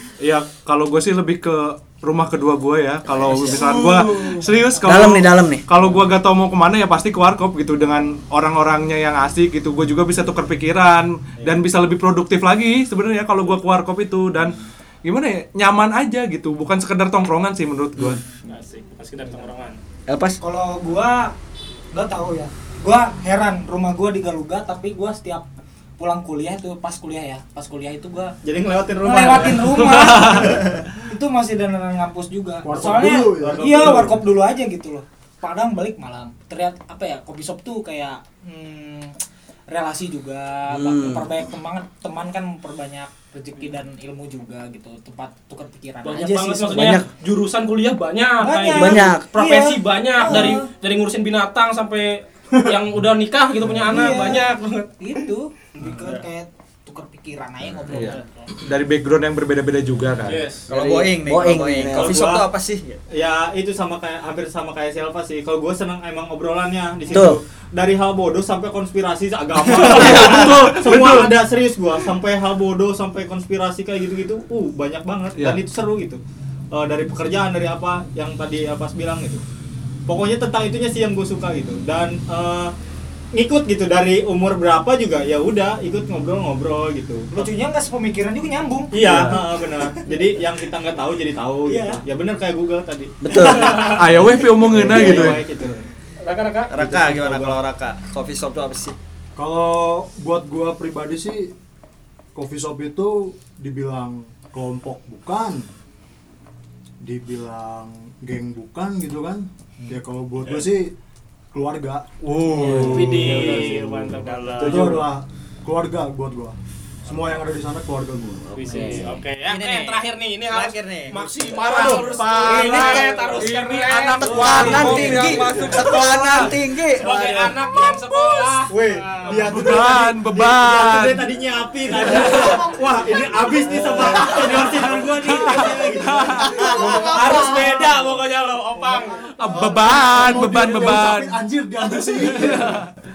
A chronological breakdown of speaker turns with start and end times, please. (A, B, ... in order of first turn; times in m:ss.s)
0:00.2-0:18.2 A
0:03.3-0:03.7 B
0:04.8-0:05.6 B
0:18.4-0:19.8 C
0:20.1-0:20.4 B
0:20.4-0:21.3 D
0:21.9-0:25.5 D
0:26.0-0:28.4 D
0:28.4-0:30.7 E
0:29.0-0:39.1 D
0:30.1-0:30.5 A
0:32.6-0:34.2 F
0:33.4-0:34.2 E
0:39.7-0:47.0 D
0:40.7-0:41.3 B
0:46.0-0:54.9 C
0:46.7-0:47.0 B
0:48.4-0:50.7 D
0:48.7-0:49.3 B
0:53.9-0:54.5 D
0:55.0-0:58.2 D
0:55.8-0:56.2 E
0:55.9-0:56.2 G
0:57.9-1:00.5 A
1:00.3-1:00.7 C
1:00.7-1:03.0 G
1:00.7-1:02.2 B
1:01.9-1:02.5 E
1:03.1-1:16.2 E
1:07.1-1:07.4 B
1:09.8-1:10.4 C
1:09.8-1:10.6 G
1:09.9-1:11.2 A
1:15.4-1:15.6 A
1:16.7-1:19.4 E
1:20.1-1:22.7 E
1:23.4-1:27.5 E
1:27.3-1:28.9 D
1:28.9-1:35.8 E
1:29.0-1:29.4 A
1:31.7-1:32.0 D
1:33.2-1:33.8 B
1:33.4-1:34.0 C
1:33.8-1:35.5 A
1:36.2-1:36.7 C
1:36.7-1:39.0 G
1:36.8-1:37.6 E
1:39.4-1:41.5 F
1:42.4-1:45.7 F
1:47.0-1:50.9 F
1:51.5-1:53.7 F
1:52.2-1:54.1 A
1:52.6-1:52.9 E
1:52.7-1:55.0 C
1:54.6-1:56.6 F
1:54.7-1:55.0 E
1:57.1-1:58.6 F
1:58.6-1:59.2 B
1:58.6-2:06.3 C
1:59.5-2:02.0 G
2:01.6-2:06.5 A
2:01.7-2:03.2 B
2:04.3-2:07.6 B
2:07.0-2:09.4 C
2:08.7-2:17.1 E
2:09.3-2:11.2 A
2:12.1-2:12.6 C
2:14.0-2:14.8 C
2:15.5-2:16.5 A
2:16.4-2:18.2 F
2:17.0-2:19.4 C
2:19.4-2:21.4 A
2:19.5-2:22.8 F
2:22.3-2:22.8 A